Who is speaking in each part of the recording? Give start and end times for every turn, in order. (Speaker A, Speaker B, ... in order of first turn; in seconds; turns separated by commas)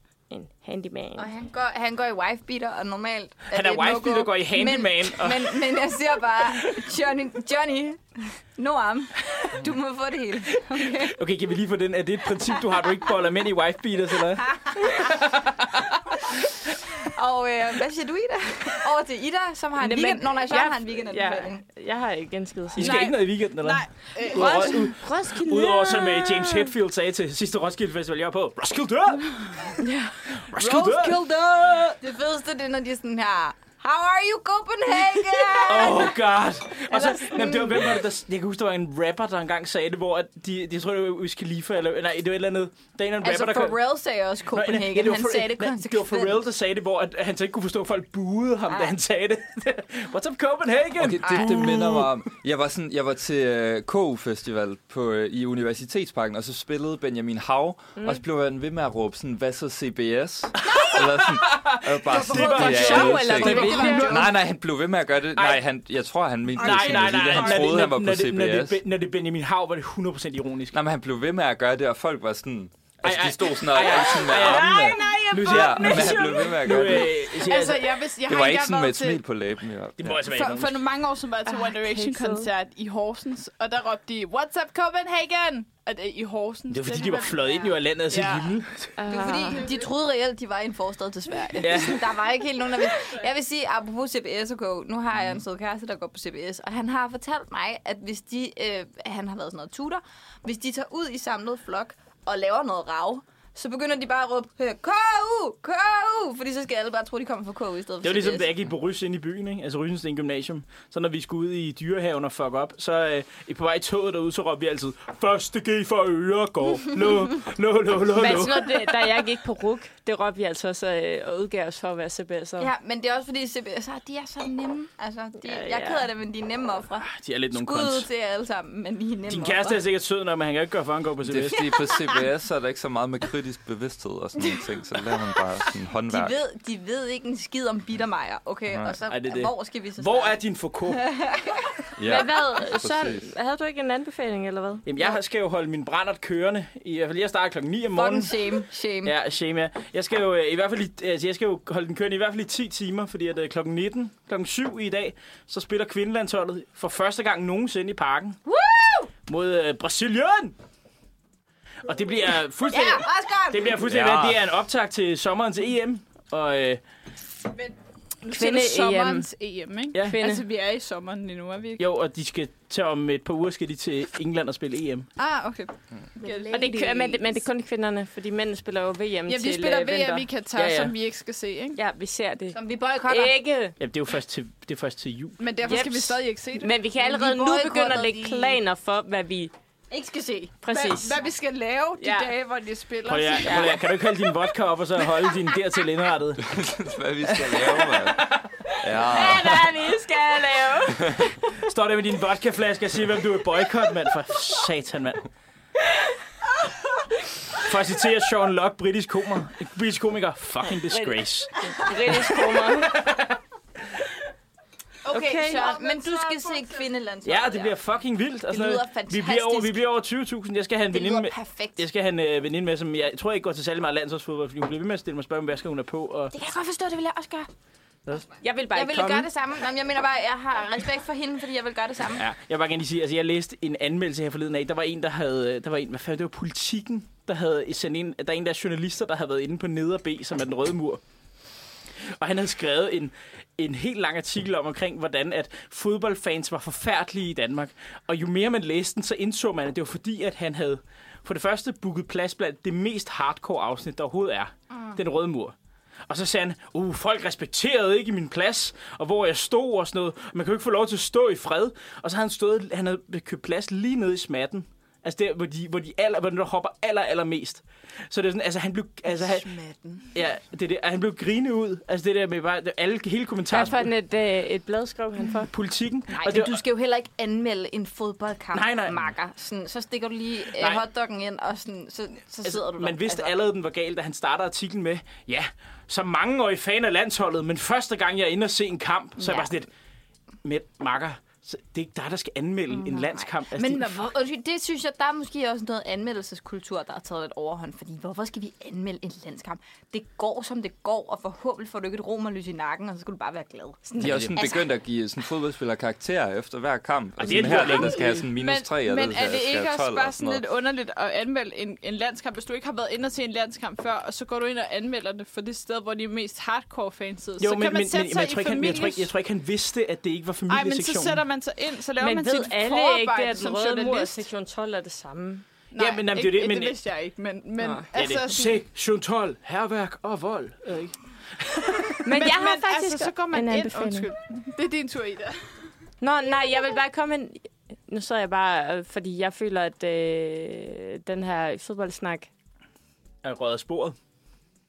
Speaker A: 0.3-1.3, Speaker B: 1.1-11.2, Speaker C: 3.5-5.7, Speaker C: 10.8-15.5, Speaker B: 14.8-15.1, Speaker B: 16.9-21.6, Speaker A: 19.8-23.1, Speaker C: 22.8-29.8, Speaker D: 22.8-24.9, Speaker A: 24.3-26.7, Speaker A: 29.8-30.2, Speaker C: 30.3-32.0, Speaker B: 30.6-31.2, Speaker B: 31.9-36.2, Speaker C: 35.7-43.8, Speaker B: 36.8-38.0, Speaker B: 43.2-46.5, Speaker C: 44.5-52.2, Speaker B: 48.7-48.9, Speaker E: 51.0-68.8, Speaker B: 51.2-51.7, Speaker C: 60.7-64.3, Speaker D: 62.1-64.3, Speaker A: 62.5-64.2, Speaker B: 63.5-64.1, Speaker C: 65.4-65.6, Speaker C: 66.6-70.8, Speaker D: 67.0-67.4, Speaker E: 70.7-77.2, Speaker C: 73.0-78.0, Speaker D: 73.8-79.2, Speaker E: 78.2-80.3, Speaker C: 80.0-80.8, Speaker D: 80.3-88.5, Speaker A: 81.5-82.5, Speaker C: 86.7-89.0, Speaker A: 89.0-89.7, Speaker B: 89.1-108.5, Speaker D: 89.2-89.8, Speaker C: 91.6-92.1, Speaker C: 108.0-118.9, Speaker A: 118.1-122.7, Speaker B: 122.6-129.8, Speaker A: 125.4-126.1, Speaker C: 127.0-128.1, Speaker C: 129.3-131.7, Speaker E: 131.2-136.3, Speaker B: 136.1-140.4, Speaker E: 138.7-139.0, Speaker C: 139.1-141.1, Speaker B: 140.9-141.7, Speaker E: 142.0-143.3, Speaker A: 142.0-144.9, Speaker C: 144.9-148.3, Speaker B: 147.9-149.2, Speaker C: 149.0-158.4, Speaker B: 158.4-159.1, Speaker C: 159.3-160.6, Speaker C: 161.8-166.8, Speaker B: 162.7-163.8, Speaker E: 163.8-164.4, Speaker D: 168.2-171.8, Speaker A: 168.3-169.3, Speaker A: 170.1-170.5, Speaker C: 171.8-175.1, Speaker D: 175.2-177.1, Speaker B: 176.2-177.2, Speaker A: 176.5-180.3, Speaker D: 179.3-181.8, Speaker C: 180.6-180.9, Speaker A: 181.8-183.8, Speaker B: 182.5-183.4, Speaker C: 183.8-185.5, Speaker D: 185.4-186.7, Speaker A: 185.6-189.5, Speaker B: 187.0-188.6, Speaker B: 189.9-190.5, Speaker A: 190.6-191.2, Speaker D: 190.7-193.8, Speaker A: 192.0-192.3, Speaker C: 193.1-196.5, Speaker A: 193.5-193.8, Speaker E: 196.4-199.7, Speaker C: 197.4-198.3, Speaker A: 198.8-201.2, Speaker B: 199.1-200.4, Speaker E: 200.9-201.2, Speaker C: 201.6-205.3, Speaker C: 207.6-213.4, Speaker A: 210.9-213.0, Speaker B: 215.1-217.8, Speaker D: 215.1-216.8, Speaker A: 215.1-215.7, Speaker C: 217.2-226.3, Speaker B: 218.5-219.8, Speaker B: 220.9-221.8, Speaker B: 226.3-227.5, Speaker B: 228.1-232.3, Speaker A: 228.4-229.3, Speaker C: 232.2-241.0, Speaker C: 242.0-255.5, Speaker C: 256.1-269.5, Speaker B: 269.2-270.1, Speaker C: 270.1-273.9, Speaker A: 273.5-275.5, Speaker C: 275.5-276.6, Speaker B: 276.1-283.3, Speaker C: 278.5-279.0, Speaker C: 282.4-289.7, Speaker B: 289.2-289.5, Speaker C: 290.4-294.1, Speaker B: 292.7-304.7, Speaker C: 304.0-304.4, Speaker E: 304.0-310.4, Speaker C: 307.2-308.2, Speaker D: 308.3-319.1, Speaker C: 317.4-321.2, Speaker D: 320.5-324.3, Speaker A: 322.0-325.4, Speaker D: 325.7-328.6, Speaker C: 325.8-326.8, Speaker A: 327.6-327.9, Speaker C: 327.9-332.0, Speaker A: 332.0-334.1, Speaker D: 332.1-335.4, Speaker A: 336.0-342.3, Speaker C: 343.2-344.0